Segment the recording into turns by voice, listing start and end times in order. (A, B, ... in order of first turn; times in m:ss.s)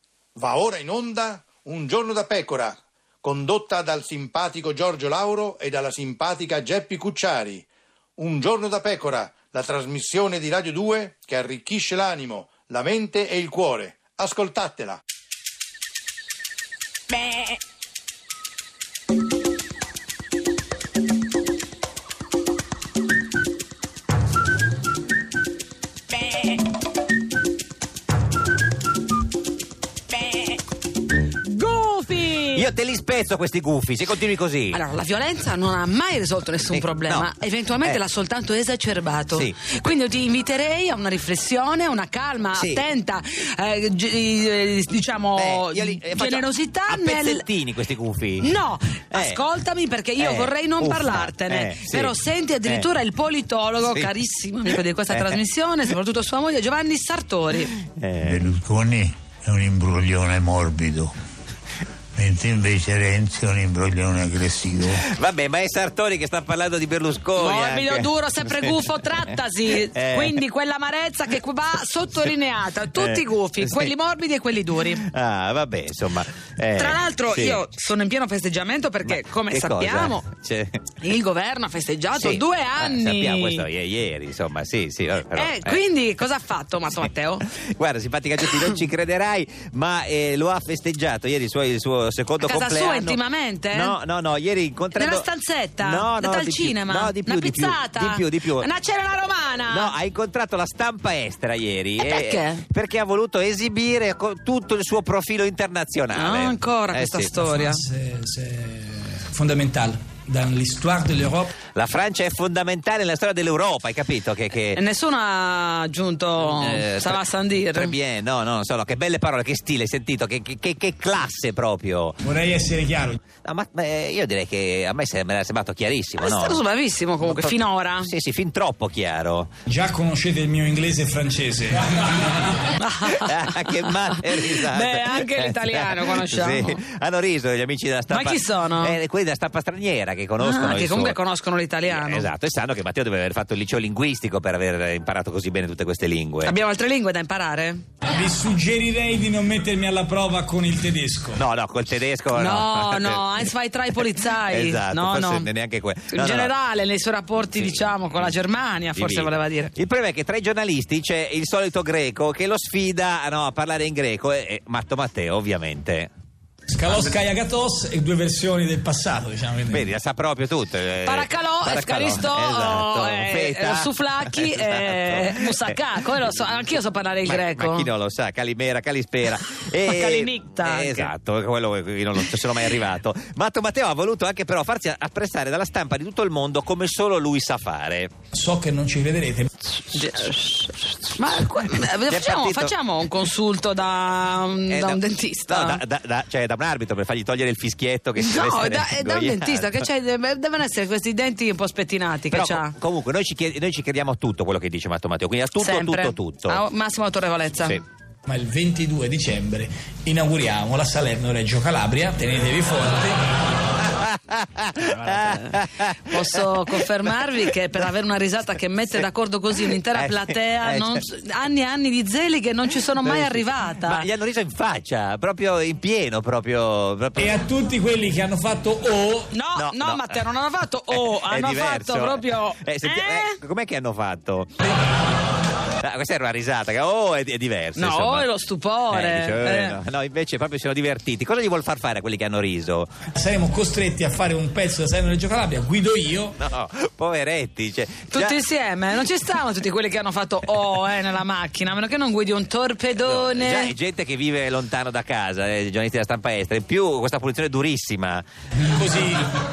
0:00.4-0:07.7 A
0:08.2-0:15.0 A
0:31.3-0:32.7 B
0:32.6-0:34.8 C
0:34.7-0:47.5 B
0:36.7-0:37.3 C
0:42.6-0:42.8 C
0:45.4-0:48.5 C
0:48.4-0:57.8 B
0:49.1-0:49.4 C
0:50.2-0:52.9 C
0:53.8-0:54.1 C
0:55.1-0:55.4 C
0:57.9-0:58.5 C
0:58.2-1:01.1 D
1:02.2-1:05.0 D
1:04.9-1:09.3 C
1:07.4-1:15.0 B
1:09.8-1:10.4 C
1:13.0-1:13.9 C
1:15.0-1:17.6 C
1:16.8-1:20.3 B
1:19.0-1:20.8 C
1:21.0-1:23.7 B
1:22.2-1:25.8 C
1:25.3-1:27.4 B
1:27.5-1:33.2 C
1:32.4-1:34.0 B
1:33.7-1:38.7 C
1:34.9-1:39.9 B
1:39.7-1:47.3 C
1:42.0-1:42.6 B
1:46.1-1:47.8 B
1:47.4-1:51.5 E
1:51.7-1:54.8 C
1:54.7-1:58.0 B
1:56.4-1:57.2 C
1:57.7-2:02.2 C
2:02.2-2:03.2 E
2:03.4-2:06.6 C
2:06.2-2:08.1 B
2:07.2-2:09.5 C
2:09.7-2:12.6 E
2:12.8-2:16.8 B
2:13.1-2:21.2 C
2:18.1-2:19.0 B
2:20.4-2:22.3 B
2:21.9-2:26.5 C
2:26.4-2:27.8 B
2:28.1-2:31.4 E
2:31.4-2:33.5 C
2:32.3-2:35.5 B
2:34.5-2:36.5 C
2:36.1-2:39.7 B
2:37.6-2:38.3 C
2:39.0-2:46.1 C
2:46.7-2:49.9 E
2:49.7-2:56.5 C
2:51.0-2:57.9 B
2:57.3-3:08.1 C
2:59.8-3:01.1 B
3:08.3-3:09.5 E
3:09.9-3:15.8 B
3:12.1-3:12.7 C
3:14.7-3:19.8 C
3:18.2-3:22.8 B
3:22.3-3:26.6 C
3:25.6-3:27.8 B
3:28.3-3:33.2 E
3:33.9-3:35.9 C
3:34.8-3:44.1 B
3:39.9-3:41.0 C
3:43.0-3:47.4 C
3:47.2-3:49.3 E
3:49.3-3:53.4 B
3:49.6-3:50.2 C
3:50.9-3:54.5 C
3:55.8-3:58.3 C
3:57.8-3:59.8 B
3:58.9-4:02.9 C
4:03.1-4:06.4 E
4:06.4-4:08.4 C
4:08.1-4:13.7 B
4:13.0-4:18.2 C
4:18.6-4:19.2 E